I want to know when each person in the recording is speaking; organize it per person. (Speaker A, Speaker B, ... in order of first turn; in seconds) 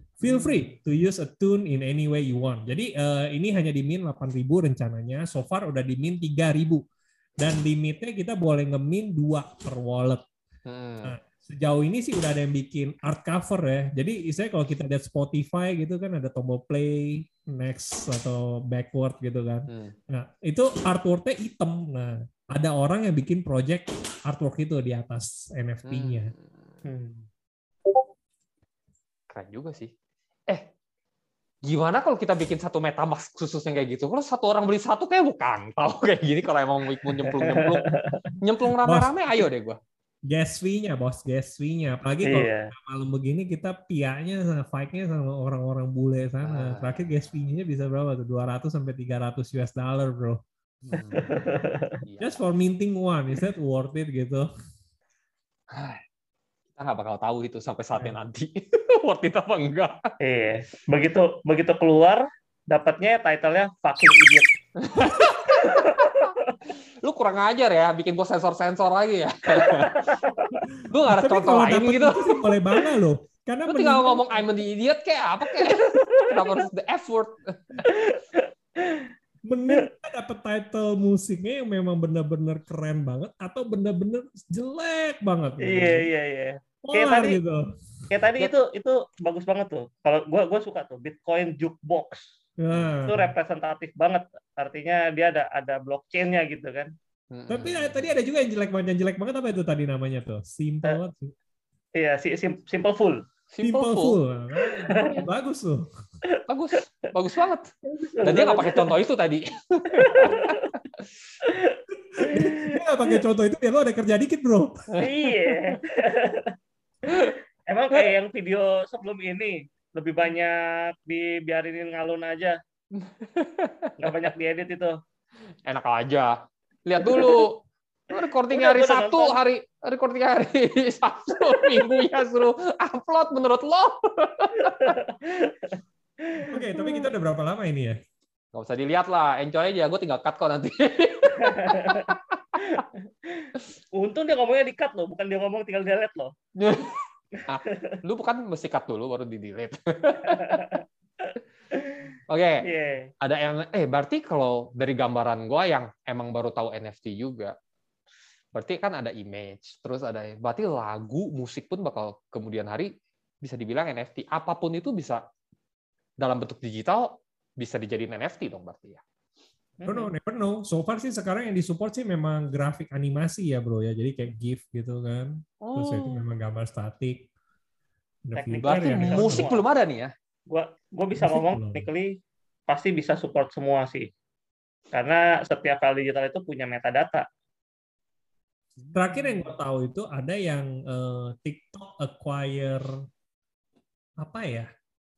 Speaker A: 0.2-6.8, 7.4-10.2, 11.0-26.3, 38.8-39.1, 40.3-50.4, 52.2-54.5, 70.7-74.3, 79.4-86.1, 86.8-87.7, 92.6-93.3, 97.5-101.3, 103.6-105.9, 112.1-114.9, 136.5-138.0, 169.8-177.3, 178.2-179.5, 181.2-181.9, 188.9-193.0, 194.2-194.7
Speaker B: 0.2-0.7, 10.7-11.1, 19.7-19.9, 25.9-26.5, 29.3-29.9, 31.6-37.9, 38.4-39.8, 46.4-47.0, 50.8-52.4, 55.7-56.0, 56.8-60.1, 64.8-70.1, 70.8-72.5, 73.7-77.9, 97.3-98.1, 103.5-104.2, 106.5-107.7, 108.2-111.0, 114.9-115.8, 117.0-117.3, 122.9-124.1, 125.7-134.9, 138.5-142.8, 146.6-150.8, 152.3-152.7, 153.2-157.5, 158.5-165.2, 166.2-169.0, 175.6-176.2, 178.6-180.1, 188.8-189.4
Speaker C: 26.8-27.3, 37.2-38.3, 42.2-42.7, 51.0-52.0, 60.2-64.5, 65.5-66.5, 69.5-70.7, 75.5-76.6, 77.8-79.1, 85.6-87.4, 88.1-92.3, 93.0-96.9, 102.0-103.2, 104.6-105.2, 106.3-106.8, 107.9-108.9, 110.0-110.7, 111.4-113.1, 115.0-116.5, 117.1-122.6, 124.0-125.0, 127.0-127.4, 128.5-129.4, 131.5-131.9, 134.6-135.8, 136.3-137.0, 141.4-146.3, 147.7-148.0, 150.2-152.1, 152.6-153.1, 169.8-170.1, 178.3-179.6, 180.5-182.1, 182.7-184.1, 184.9-187.2